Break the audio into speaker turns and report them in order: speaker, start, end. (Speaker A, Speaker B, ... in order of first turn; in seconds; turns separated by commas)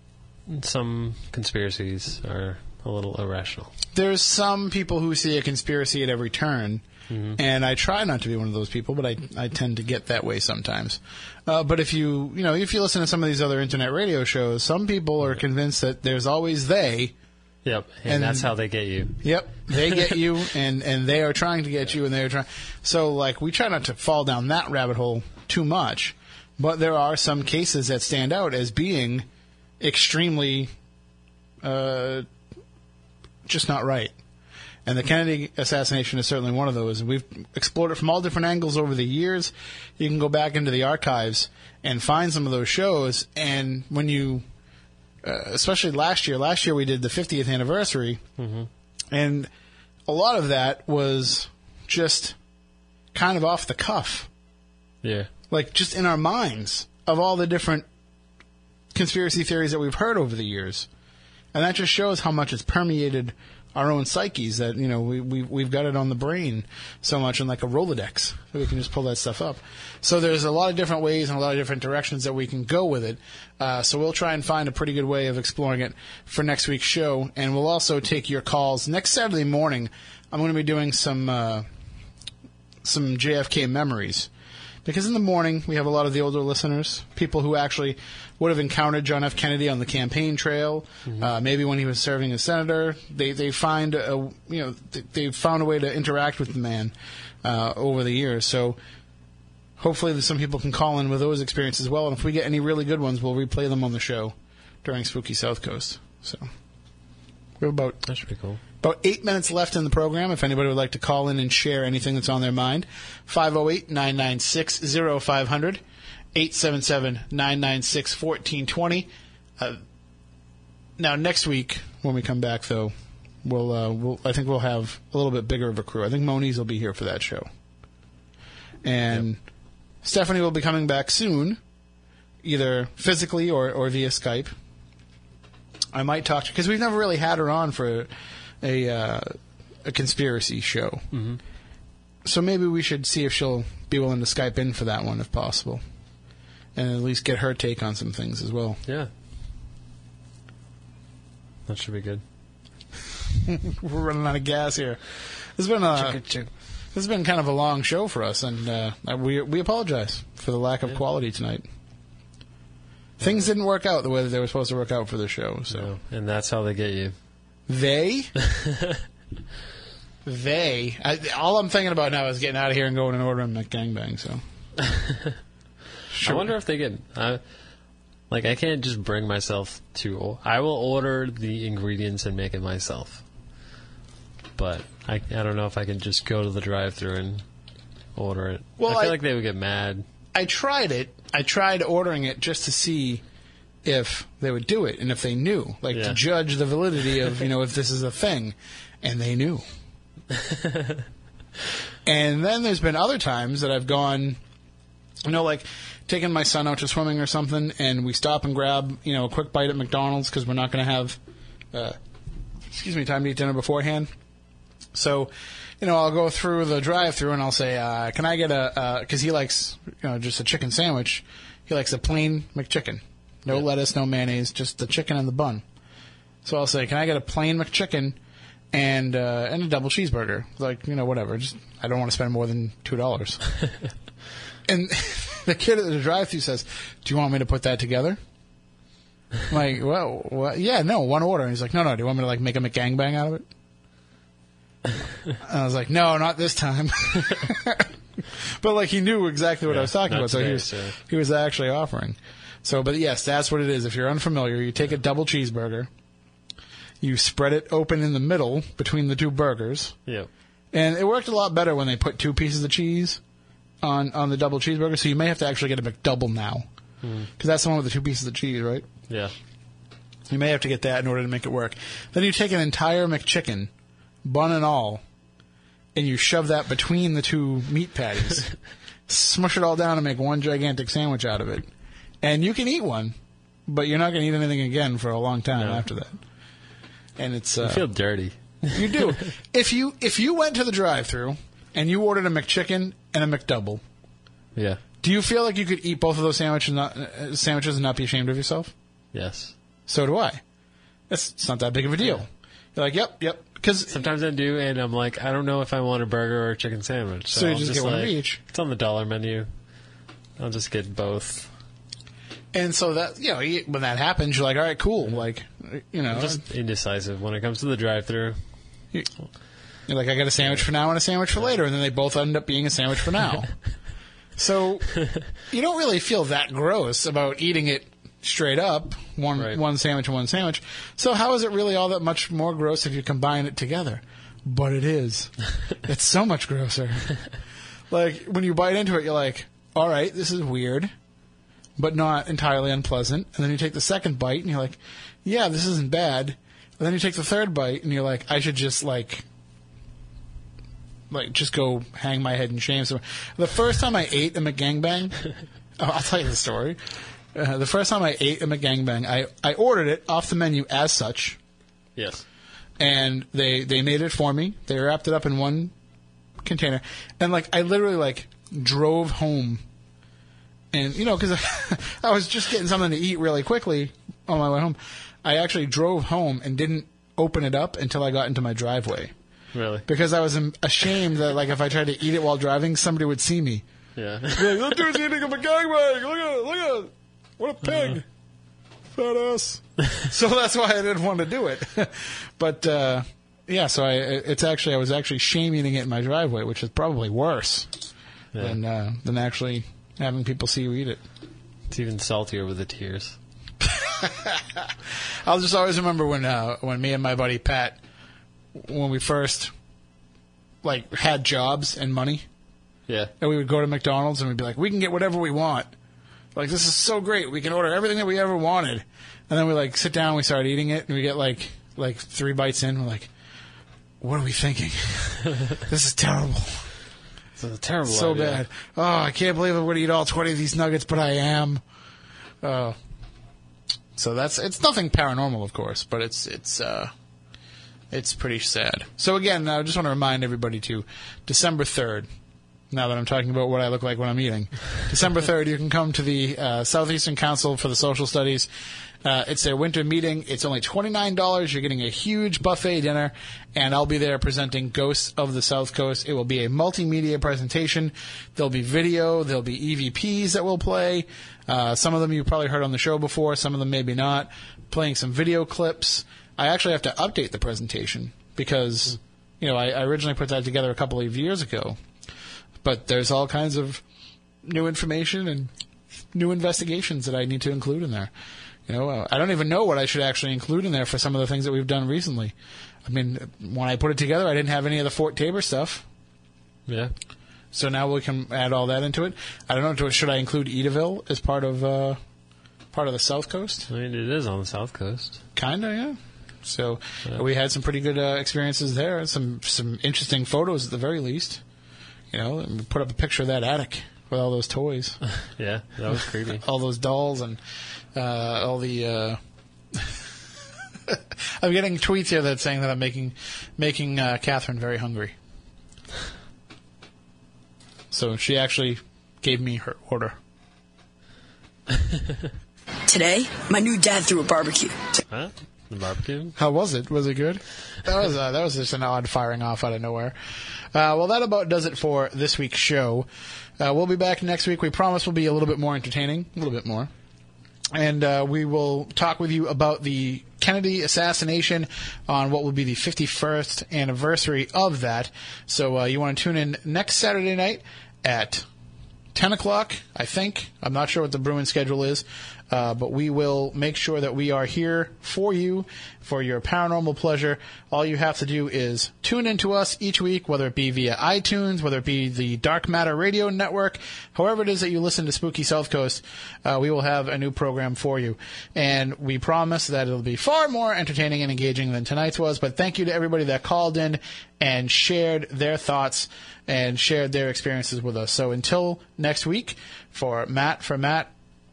Speaker A: 0.5-3.7, Speaker B: 3.9-6.8, Speaker A: 7.1-7.4, Speaker B: 7.4-17.1, Speaker A: 17.6-20.1, Speaker B: 18.1-18.5, Speaker B: 19.2-29.3, Speaker B: 29.8-30.7, Speaker B: 31.6-32.3, Speaker B: 33.5-34.1, Speaker B: 34.9-44.5, Speaker B: 45.2-48.2, Speaker A: 48.4-48.7, Speaker B: 49.1-49.5, Speaker B: 50.1-52.4, Speaker B: 53.1-54.3, Speaker A: 55.0-55.3, Speaker B: 55.5-57.9, Speaker B: 58.9-60.9, Speaker B: 61.5-81.7, Speaker B: 82.8-84.3, Speaker B: 84.8-98.8, Speaker A: 91.1-91.3, Speaker B: 99.8-106.5, Speaker B: 107.6-108.0, Speaker A: 108.0-108.6, Speaker B: 108.8-115.8, Speaker B: 116.3-119.8, Speaker B: 121.0-122.9, Speaker B: 123.4-127.5, Speaker B: 128.8-129.4, Speaker B: 130.0-131.6, Speaker B: 132.4-134.5, Speaker B: 135.9-138.1, Speaker B: 138.6-141.0, Speaker A: 141.1-141.4, Speaker B: 142.2-145.8, Speaker B: 146.8-148.8, Speaker A: 151.7-152.2, Speaker B: 153.5-156.2, Speaker A: 155.9-156.5, Speaker B: 156.9-161.7, Speaker B: 163.2-165.9, Speaker A: 163.2-163.5, Speaker A: 165.7-167.2, Speaker B: 167.7-168.3, Speaker A: 168.4-168.9, Speaker B: 170.2-174.4, Speaker A: 174.9-175.4, Speaker B: 176.1-176.5, Speaker A: 176.2-177.6, Speaker A: 178.3-183.2, Speaker A: 184.6-187.4, Speaker A: 188.2-190.1, Speaker B: 188.8-189.2, Speaker B: 190.3-193.2, Speaker B: 193.8-199.6, Speaker A: 195.9-196.2, Speaker A: 200.3-201.0, Speaker B: 202.1-204.4, Speaker B: 205.2-211.2, Speaker B: 212.7-214.1, Speaker B: 214.9-225.6, Speaker B: 226.4-228.2, Speaker B: 228.7-233.4, Speaker B: 234.7-238.2, Speaker B: 239.5-243.5, Speaker B: 245.4-255.9, Speaker A: 249.7-251.0, Speaker B: 257.0-260.0, Speaker B: 260.7-263.2, Speaker B: 263.8-266.7, Speaker A: 267.0-267.3, Speaker B: 267.4-268.9, Speaker A: 269.1-269.3, Speaker B: 270.3-273.7, Speaker B: 274.2-275.0, Speaker B: 275.9-278.6, Speaker B: 279.1-281.7, Speaker B: 282.2-283.1, Speaker B: 283.7-286.2, Speaker A: 285.6-285.9, Speaker B: 287.2-287.9, Speaker A: 287.6-289.3, Speaker B: 288.7-293.8, Speaker A: 294.6-294.8, Speaker B: 295.0-298.7, Speaker A: 299.1-299.6, Speaker B: 299.9-300.4, Speaker B: 301.1-304.0, Speaker A: 303.9-309.5, Speaker B: 307.3-308.4, Speaker A: 310.4-311.5, Speaker B: 312.5-316.4, Speaker A: 316.1-318.4, Speaker B: 319.9-323.6, Speaker A: 320.4-320.7, Speaker B: 324.4-337.3, Speaker B: 337.9-340.9, Speaker B: 341.8-349.2, Speaker B: 351.1-356.8, Speaker B: 357.3-361.4, Speaker A: 362.0-362.2, Speaker B: 362.8-365.7, Speaker B: 366.4-369.6, Speaker B: 370.7-379.1, Speaker A: 379.5-379.9, Speaker B: 379.9-383.6, Speaker A: 384.0-384.6, Speaker B: 384.3-388.1, Speaker B: 388.9-397.7, Speaker B: 398.4-401.0, Speaker A: 401.7-403.2, Speaker B: 403.6-407.8, Speaker B: 408.5-409.5, Speaker B: 410.6-412.3, Speaker B: 413.2-415.7, Speaker B: 416.4-423.1, Speaker B: 424.0-426.7, Speaker A: 427.4-428.4, Speaker B: 427.9-431.6, Speaker B: 432.4-432.8, Speaker B: 434.0-436.9, Speaker B: 437.9-442.1, Speaker B: 442.7-448.5, Speaker B: 449.0-471.8, Speaker B: 472.6-473.8, Speaker B: 474.4-475.5, Speaker B: 476.1-478.1, Speaker B: 478.7-482.3, Speaker B: 482.9-485.9, Speaker A: 486.7-486.9, Speaker B: 487.5-492.0, Speaker B: 492.7-493.7, Speaker A: 493.7-495.2, Speaker B: 495.4-501.4, Speaker B: 502.1-505.0, Speaker A: 505.2-506.4, Speaker B: 506.2-507.4, Speaker B: 507.9-509.2, Speaker B: 509.7-510.1, Speaker B: 510.9-515.1, Speaker B: 517.9-520.2, Speaker C: 522.9-525.0, Speaker A: 525.1-526.4, Speaker B: 526.4-533.1, Speaker B: 533.6-536.9, Speaker B: 537.7-548.5, Speaker B: 549.1-581.1